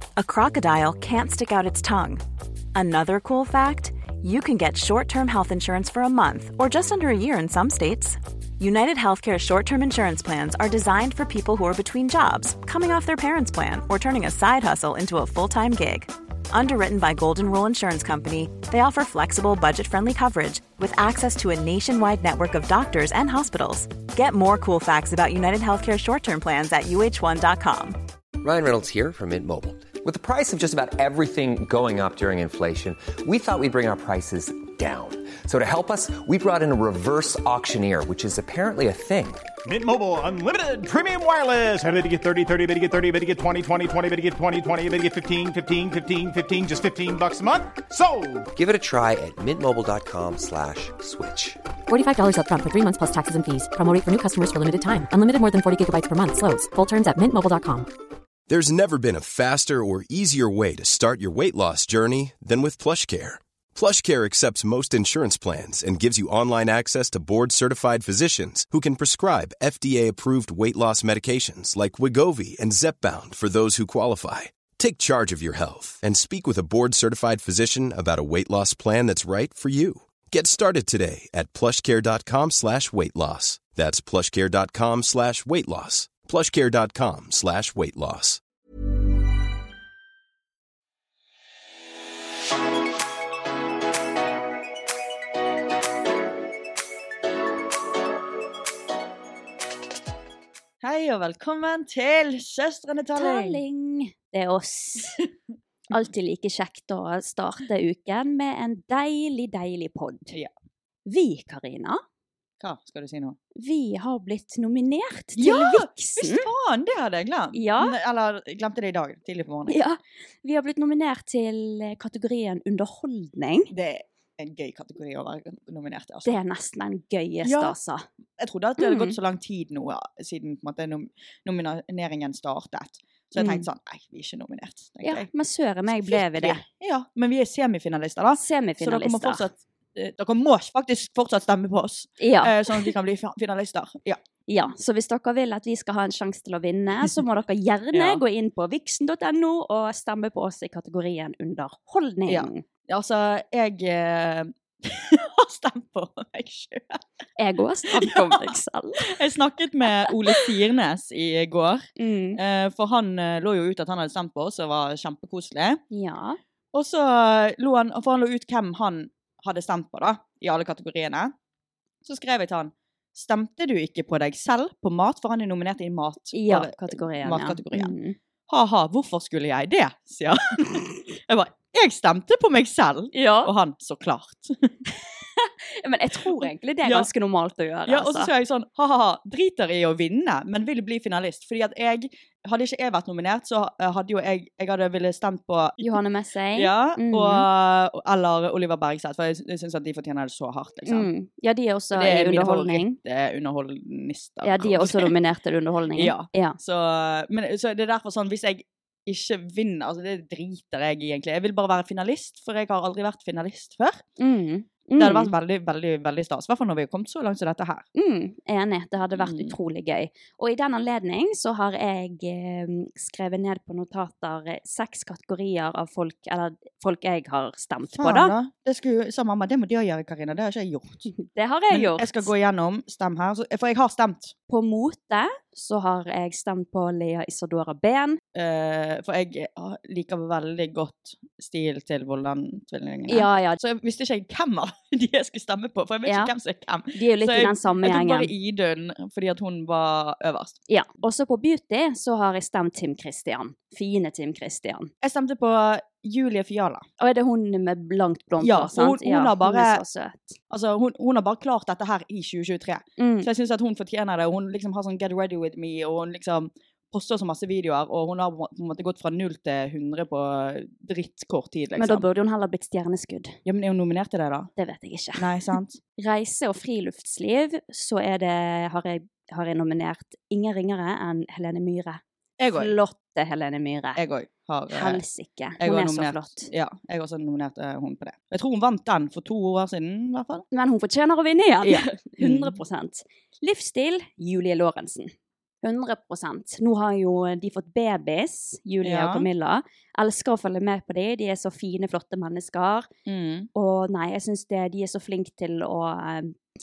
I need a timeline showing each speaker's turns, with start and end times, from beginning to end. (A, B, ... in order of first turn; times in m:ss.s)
0:00.2-0:02.2 A
0:02.7-0:28.0 A
0:28.4-0:39.4 B
0:39.6-0:48.5 C
0:48.5-0:51.6 B
0:51.9-0:57.9 D
0:58.5-1:28.4 E
1:40.8-1:43.6 F
1:43.2-1:45.2 G
1:45.9-1:50.4 G
1:51.0-1:52.0 G
1:52.6-1:53.4 F
1:53.6-1:56.4 G
1:55.4-1:59.8 F
1:57.5-1:58.0 G
1:59.7-2:03.7 G
2:03.7-2:06.3 F
2:06.2-2:08.0 G
2:07.4-2:07.7 F
2:08.4-2:15.3 F
2:08.8-2:09.2 G
2:13.4-2:13.6 G
2:15.0-2:16.6 G
2:15.9-2:24.2 F
2:18.4-2:19.4 G
2:22.2-2:22.9 G
2:24.5-2:32.6 G
2:27.9-2:28.2 F
2:32.3-2:37.0 F
2:37.4-2:39.2 G
2:37.9-2:38.5 F
2:39.0-2:45.8 F
2:40.1-2:40.4 G
2:42.0-2:42.4 G
2:45.9-2:46.4 G
2:46.7-2:51.3 F
2:52.0-2:57.9 F
2:56.3-2:58.2 G
2:58.5-3:04.7 F
3:03.1-3:03.5 G
3:05.4-3:08.3 G
3:06.4-3:07.1 F
3:07.9-3:16.0 F
3:15.8-3:17.4 G
3:16.5-3:21.1 F
3:20.9-3:23.0 G
3:21.9-3:25.1 F
3:24.4-3:26.6 G
3:25.9-3:34.0 F
3:34.2-3:35.3 G
3:35.0-3:37.8 F
3:37.9-3:48.3 G
3:39.2-3:39.5 F
3:48.0-3:51.1 F
3:51.1-3:52.3 G
3:51.7-3:54.3 F
3:54.5-3:58.2 G
3:58.3-4:10.6 F
4:03.1-4:03.6 G
4:06.0-4:06.3 G
4:06.9-4:08.3 G
4:10.7-4:14.9 G
4:15.0-4:16.8 F
4:17.0-4:20.4 G
4:18.4-4:19.8 F
4:20.5-4:32.0 F
4:23.0-4:23.3 G
4:31.8-4:33.3 G
4:33.4-4:34.5 F
4:34.6-4:35.3 G
4:35.2-4:35.8 F
4:36.0-4:42.0 G
4:42.4-4:42.7 F
4:42.5-4:44.0 G
4:44.0-4:45.0 F
4:44.7-4:46.5 G
4:45.6-4:50.4 F
4:50.5-5:02.9 G
4:51.6-4:52.6 F
4:58.8-4:59.3 F
5:03.0-5:03.5 F
5:03.5-5:06.4 G